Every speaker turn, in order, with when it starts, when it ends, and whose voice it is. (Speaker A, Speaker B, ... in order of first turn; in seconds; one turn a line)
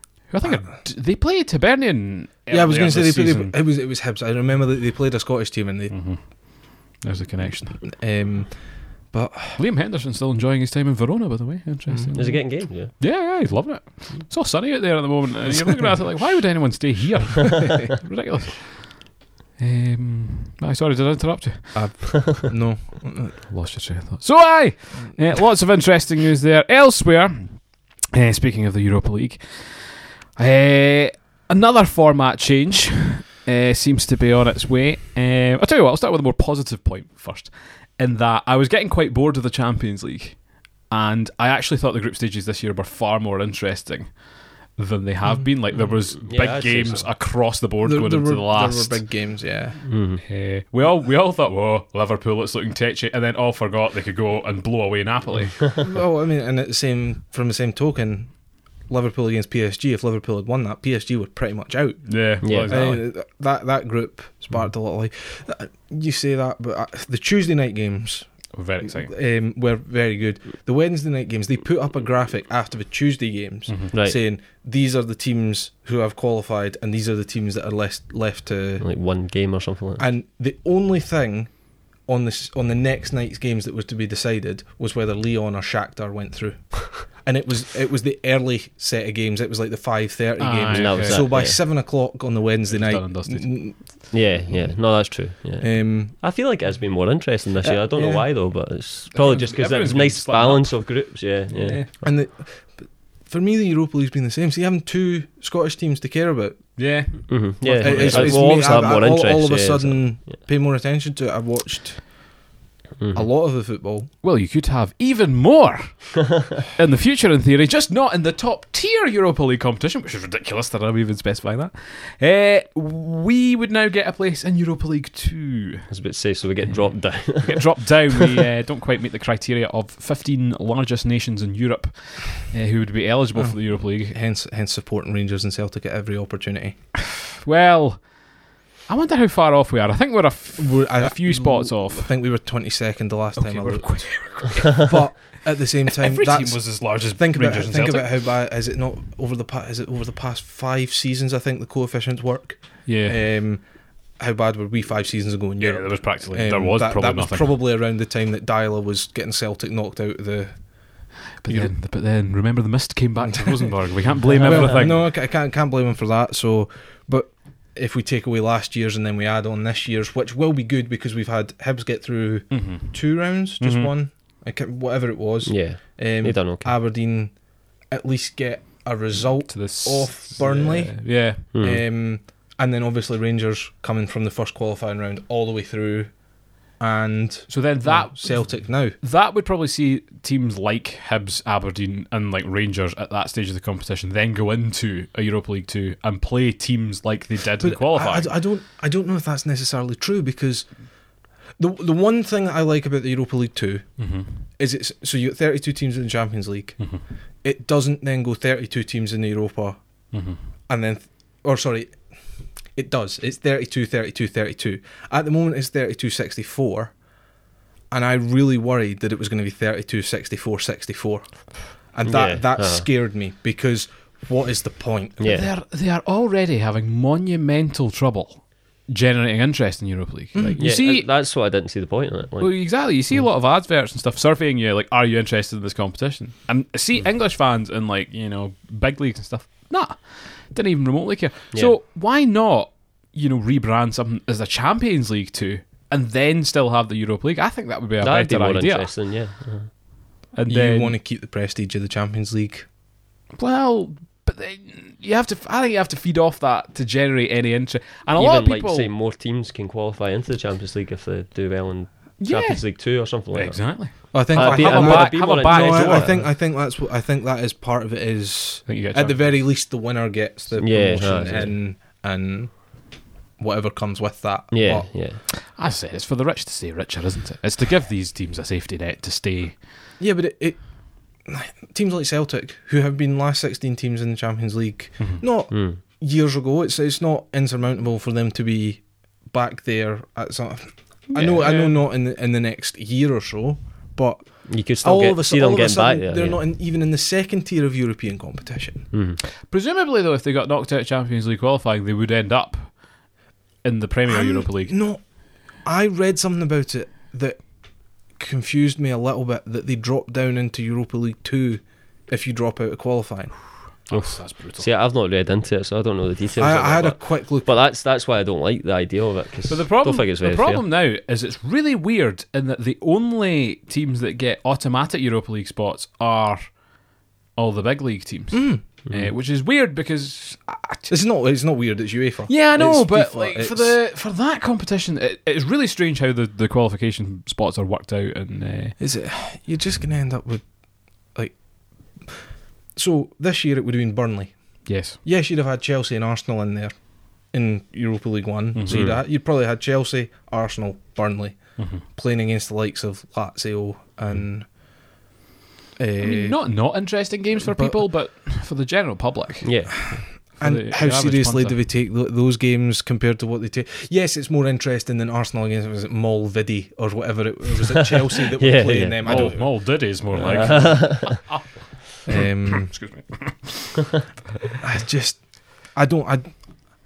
Speaker A: 0.2-3.5
Speaker B: 0.4-0.7
Speaker B: 2.5-6.0
Speaker A: 5.9-7.9
Speaker B: 7.8-9.6
Speaker A: 9.6-22.0
Speaker B: 11.9-12.1
Speaker C: 12.1-13.0
Speaker B: 15.5-15.9
Speaker B: 21.7-23.4
Speaker A: 23.5-49.1
Speaker B: 45.3-45.9
Speaker C: 46.2-47.1
Speaker B: 47.8-49.8
Speaker C: 49.9-50.2
Speaker A: 50.2-55.9
Speaker B: 55.8-68.3
Speaker A: 62.0-63.0
Speaker C: 62.4-62.8
Speaker A: 68.5-69.1
Speaker B: 68.8-78.8
Speaker A: 73.7-73.9
Speaker C: 73.9-74.2
Speaker C: 78.8-80.0
Speaker B: 80.0-94.7
Speaker A: 90.4-91.3
Speaker C: 90.7-91.6
Speaker A: 92.7-93.8
Speaker C: 94.1-101.8
Speaker B: 95.6-96.1
Speaker B: 97.6-98.2
Speaker A: 99.1-101.9
Speaker B: 102.0-107.3
Speaker A: 106.8-108.7
Speaker C: 107.3-110.1
Speaker B: 107.8-112.1
Speaker C: 113.0-113.2
Speaker B: 113.1-114.1
Speaker A: 114.2-125.9
Speaker C: 125.9-128.1
Speaker A: 127.3-134.2
Speaker B: 133.3-136.8
Speaker A: 137.3-138.3
Speaker A: 138.9-142.1
Speaker B: 140.6-161.7
Speaker A: 143.4-145.4
Speaker A: 145.9-148.2
Speaker A: 152.8-153.2
Speaker A: 155.6-157.6
Speaker A: 161.4-165.1
Speaker B: 163.2-163.7
Speaker B: 164.3-186.2
Speaker A: 172.5-173.9
Speaker C: 175.4-176.7
Speaker A: 179.5-181.5
Speaker C: 181.5-181.8
Speaker B: 186.8-188.9
Speaker A: 187.5-198.3
Speaker B: 197.6-200.8
Speaker B: 201.6-204.1
Speaker A: 204.0-204.3
Speaker B: 204.6-209.8
Speaker A: 210.1-210.4
Speaker B: 210.7-212.0
Speaker B: 212.7-216.9
Speaker B: 217.9-225.2
Speaker C: 222.0-222.9
Speaker C: 225.2-225.5
Speaker A: 225.2-231.1
Speaker B: 230.3-230.6
Speaker C: 230.6-233.1
Speaker A: 232.4-248.9
Speaker C: 241.5-241.8
Speaker C: 248.0-249.7
Speaker A: 250.3-250.9
Speaker B: 250.5-252.7
Speaker A: 253.3-258.9
Speaker C: 258.1-266.2
Speaker A: 262.2-266.2
Speaker B: 264.1-274.9
Speaker A: 268.6-269.4
Speaker C: 270.6-271.6
Speaker C: 274.5-275.2
Speaker A: 275.5-279.6
Speaker B: 280.0-298.9
Speaker A: 285.0-285.2
Speaker C: 285.5-285.8
Speaker A: 291.1-291.8
Speaker C: 294.4-296.4
Speaker C: 298.9-299.2
Speaker A: 299.4-303.0
Speaker A: 303.6-304.7
Speaker B: 304.1-314.1
Speaker A: 313.9-314.7
Speaker C: 314.5-320.6
Speaker B: 316.4-317.5
Speaker A: 319.5-326.8
Speaker A: 327.3-330.9
Speaker B: 328.3-328.6
Speaker B: 330.9-333.8
Speaker A: 332.3-338.8
Speaker B: 338.8-354.5
Speaker A: 344.6-345.0
Speaker A: 348.5-348.9
Speaker C: 348.7-349.0
Speaker A: 351.6-351.8
Speaker B: 355.8-356.7
Speaker A: 356.0-361.6
Speaker B: 357.4-357.8
Speaker C: 359.4-360.0
Speaker B: 359.9-370.7
Speaker C: 368.3-371.2
Speaker A: 369.0-374.0
Speaker B: 372.1-372.8
Speaker B: 374.6-376.7